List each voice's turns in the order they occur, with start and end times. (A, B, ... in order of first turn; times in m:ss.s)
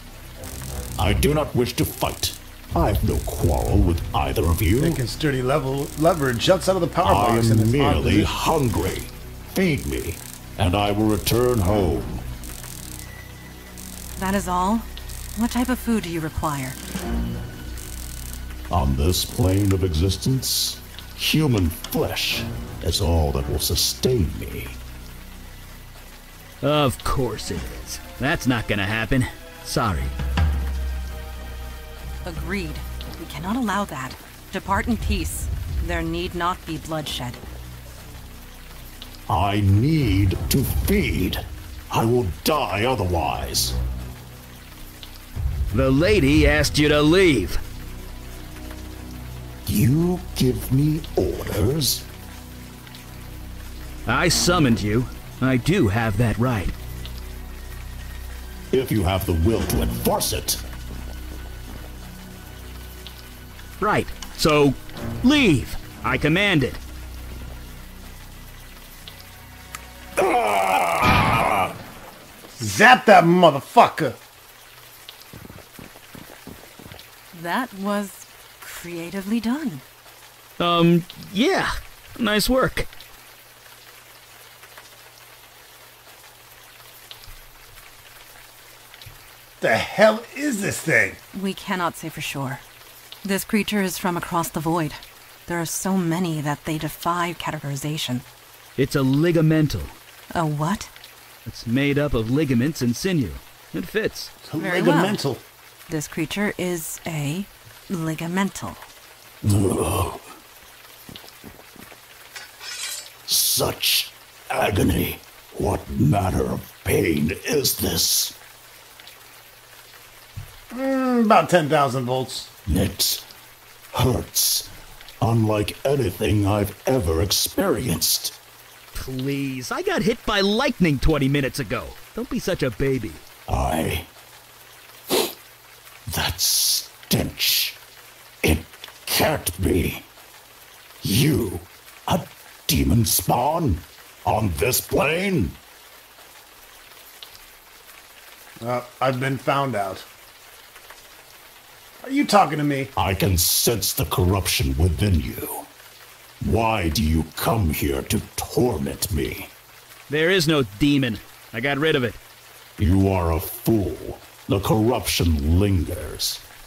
0:01.0-0:05.0 A
0:04.8-0:08.3 B
0:07.0-0:12.2 A
0:14.2-0:16.8 C
0:18.7-0:24.8 A
0:26.6-0:30.1 D
0:32.2-0:37.4 C
0:39.3-0:43.8 A
0:45.7-0:47.6 D
0:49.6-0:52.1 A
0:54.1-0:56.7 D
0:58.7-1:00.6 A
1:03.8-1:06.8 D
1:10.2-1:11.7 A
1:12.6-1:14.2 B
1:17.3-1:19.8 C
1:20.6-1:22.9 D
1:29.6-1:31.2 B
1:31.3-1:32.6 C
1:33.2-1:38.3 C
1:38.8-1:40.0 D
1:40.3-1:40.9 C
1:41.5-1:44.3 D
1:44.4-1:45.5 B
1:44.6-1:45.2 C
1:45.9-1:48.9 C
1:49.4-1:50.2 A
1:53.3-1:58.4 A
2:00.7-2:02.5 B
2:02.7-2:03.2 A
2:03.9-2:04.7 A
2:05.2-2:08.4 A
2:09.0-2:13.2 D
2:13.5-2:14.1 A
2:16.1-2:17.8 A
2:18.4-2:20.1 A
2:21.0-2:25.6 A
2:28.6-2:30.1 B
2:32.0-2:32.9 B
2:33.0-2:35.7 A
2:36.4-2:39.5 A
2:40.1-2:42.2 D
2:42.8-2:46.4 A